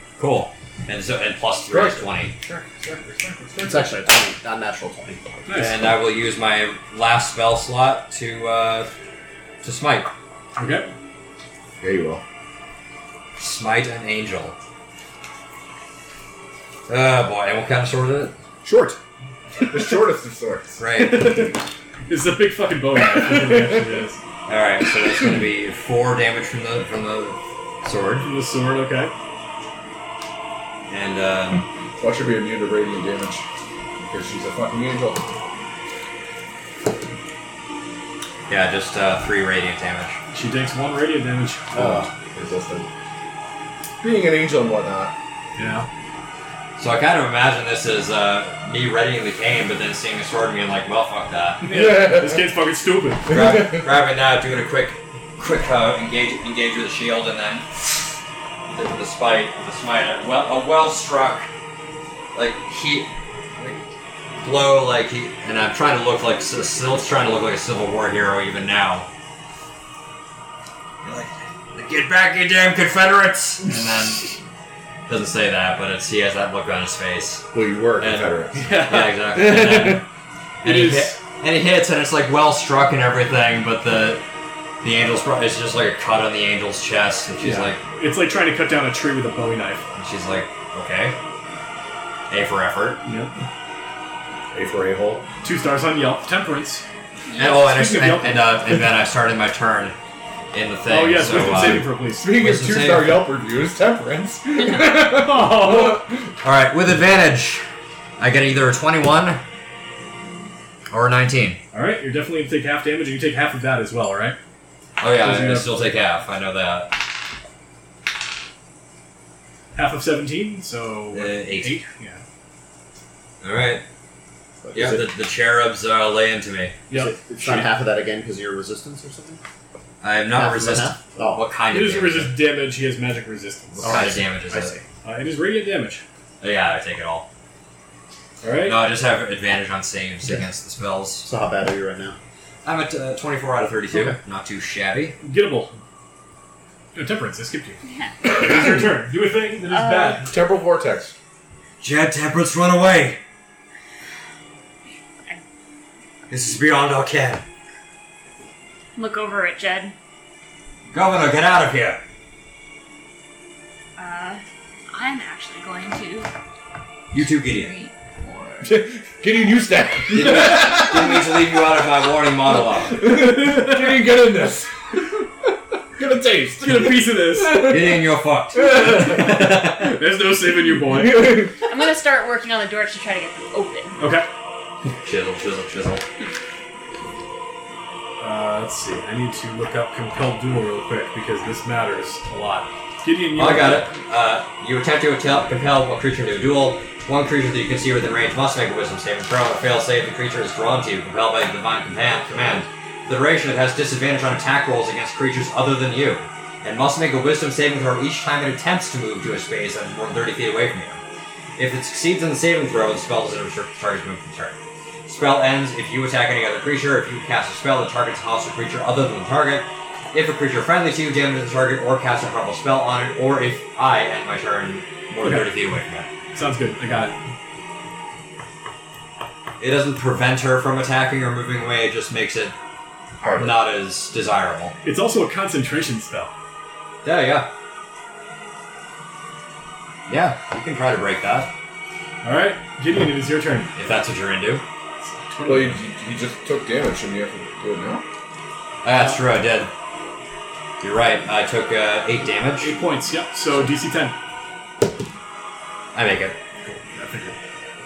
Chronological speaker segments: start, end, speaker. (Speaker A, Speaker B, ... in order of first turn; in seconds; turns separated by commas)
Speaker A: 0.2-2.3, Speaker B: 1.7-3.9, Speaker C: 3.6-5.2, Speaker D: 5.5-5.8, Speaker A: 5.5-8.9, Speaker A: 9.6-10.1, Speaker D: 10.6-10.9, Speaker B: 11.8-12.2, Speaker A: 13.4-14.6, Speaker A: 16.9-18.3, Speaker B: 18.6-19.0, Speaker B: 19.6-20.8, Speaker A: 20.8-21.5, Speaker D: 20.9-24.2, Speaker A: 24.5-28.3, Speaker D: 28.2-29.1, Speaker A: 30.9-31.6, Speaker B: 32.0-33.5, Speaker B: 34.0-35.2, Speaker A: 38.5-40.2, Speaker D: 40.3-42.0, Speaker B: 41.7-42.9, Speaker C: 41.7-42.1, Speaker B: 44.0-45.1, Speaker D: 45.5-45.9, Speaker A: 46.8-51.6, Speaker D: 51.6-53.3, Speaker B: 51.7-52.5, Speaker B: 53.3-53.9, Speaker A: 53.3-58.1, Speaker A: 58.7-61.5, Speaker A: 62.3-63.8, Speaker A: 64.4-69.1, Speaker A: 71.0-74.4, Speaker A: 75.1-80.0, Speaker B: 77.5-78.6, Speaker D: 78.5-80.0, Speaker D: 80.6-81.2, Speaker A: 80.6-84.2, Speaker A: 84.8-87.8, Speaker D: 87.4-89.8, Speaker A: 90.0-91.2, Speaker A: 92.3-93.0, Speaker D: 93.0-93.3, Speaker B: 94.5-95.2, Speaker D: 95.4-96.8, Speaker E: 97.3-97.6, Speaker A: 97.3-99.9, Speaker D: 97.6-98.9, Speaker A: 100.5-103.3, Speaker D: 100.9-102.3, Speaker B: 102.1-106.3, Speaker E: 104.6-104.9, Speaker D: 105.1-106.0, Speaker A: 106.4-107.6, Speaker A: 108.2-109.4, Speaker A: 110.9-111.6, Speaker D: 111.7-114.4, Speaker A: 115.0-117.0, Speaker D: 115.2-115.7, Speaker D: 119.7-122.2, Speaker A: 121.1-121.8, Speaker A: 123.4-123.8, Speaker C: 124.6-125.1, Speaker A: 124.7-126.8, Speaker D: 126.9-127.6, Speaker C: 126.9-129.4, Speaker A: 130.0-132.4, Speaker C: 130.3-131.4, Speaker D: 131.7-134.2, Speaker A: 133.8-134.8, Speaker C: 133.8-134.8, Speaker D: 135.0-136.0, Speaker A: 136.4-137.3, Speaker D: 138.4-138.8, Speaker A: 138.6-141.3, Speaker C: 141.2-142.2, Speaker A: 142.6-145.2, Speaker C: 143.9-144.2, Speaker D: 145.2-145.8, Speaker D: 146.9-150.3, Speaker E: 147.8-148.2, Speaker E: 149.7-150.3, Speaker B: 150.3-151.1, Speaker A: 151.8-153.2, Speaker A: 156.3-157.4, Speaker E: 158.9-159.9, Speaker A: 160.9-162.0, Speaker E: 164.0-166.3, Speaker A: 167.1-167.8, Speaker E: 167.4-168.6, Speaker B: 168.6-171.6, Speaker A: 170.1-173.0, Speaker B: 172.5-175.2, Speaker D: 173.2-173.9, Speaker B: 175.9-179.4, Speaker D: 176.6-177.7, Speaker A: 177.5-180.0, Speaker D: 178.6-181.4, Speaker B: 180.8-181.6, Speaker E: 181.4-184.0, Speaker D: 184.0-184.3, Speaker A: 184.8-186.0, Speaker D: 188.2-193.9, Speaker A: 193.3-211.0, Speaker A: 211.6-226.1, Speaker D: 225.2-225.5, Speaker D: 226.3-227.2, Speaker A: 229.6-232.5, Speaker B: 233.2-233.5, Speaker A: 233.3-234.8, Speaker D: 234.8-236.3, Speaker A: 237.0-237.5, Speaker A: 240.1-241.5, Speaker D: 242.2-243.7, Speaker A: 243.8-244.6, Speaker D: 245.0-245.8, Speaker B: 245.4-248.0, Speaker A: 248.8-249.7, Speaker A: 250.8-252.7, Speaker D: 252.6-254.1, Speaker A: 255.9-256.4, Speaker D: 256.6-257.3